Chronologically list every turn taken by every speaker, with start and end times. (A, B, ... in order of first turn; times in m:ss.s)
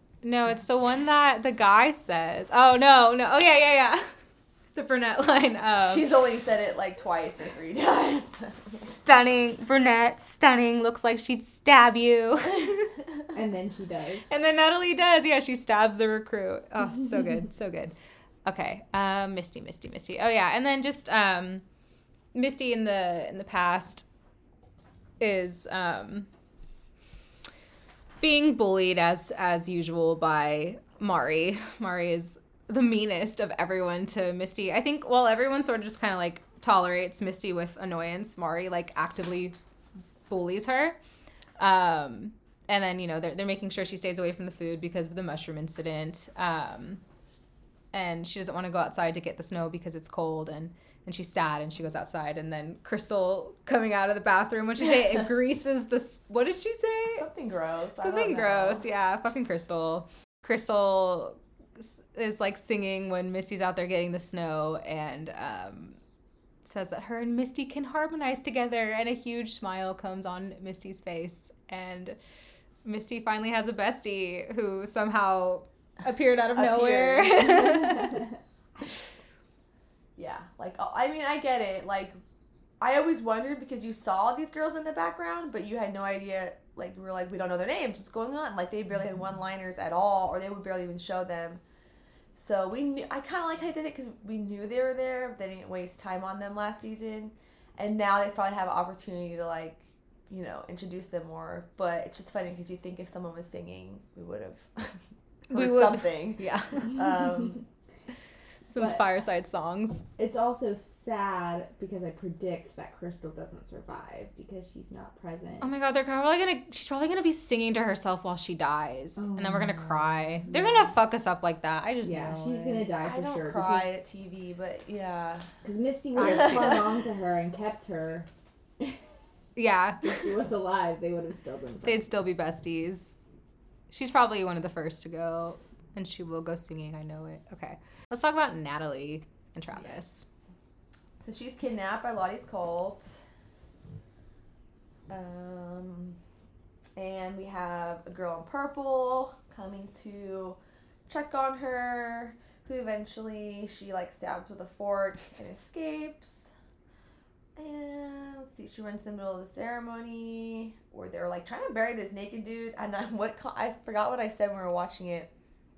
0:00.2-0:04.2 A
0:04.7-0:06.1 A
0:05.8-0:08.9 B
0:08.7-0:13.0 A
0:13.3-0:14.3 C
0:14.3-0:17.9 A
0:18.4-0:21.6 A
0:22.3-0:24.1 A
0:25.2-0:26.3 A
0:28.2-0:39.6 A
0:40.3-0:41.0 A
0:41.6-0:47.0 A
0:47.9-0:57.3 A
0:57.1-0:58.8 B
0:58.0-1:06.0 A
1:06.6-1:12.2 A
1:12.8-1:18.2 A
1:16.6-1:17.8 B
1:20.2-1:22.2 B
1:22.8-1:31.6 B
1:32.4-1:47.6 B
1:45.5-1:47.0 A
1:48.7-1:50.0 A
1:48.8-1:49.0 C
1:50.2-1:55.7 C
1:55.6-2:02.9 A
1:59.2-2:00.9 C
2:02.0-2:03.9 C
2:03.0-2:05.6 B
2:05.6-2:08.3 C
2:06.2-2:06.8 A
2:06.2-2:06.9 B
2:08.8-2:09.1 C
2:09.6-2:10.3 A
2:10.0-2:12.1 C
2:11.8-2:13.2 A
2:13.9-2:20.3 A
2:19.7-2:20.0 B
2:21.2-2:23.2 B
2:25.1-2:26.2 B
2:27.0-2:36.5 B
2:37.6-2:45.3 B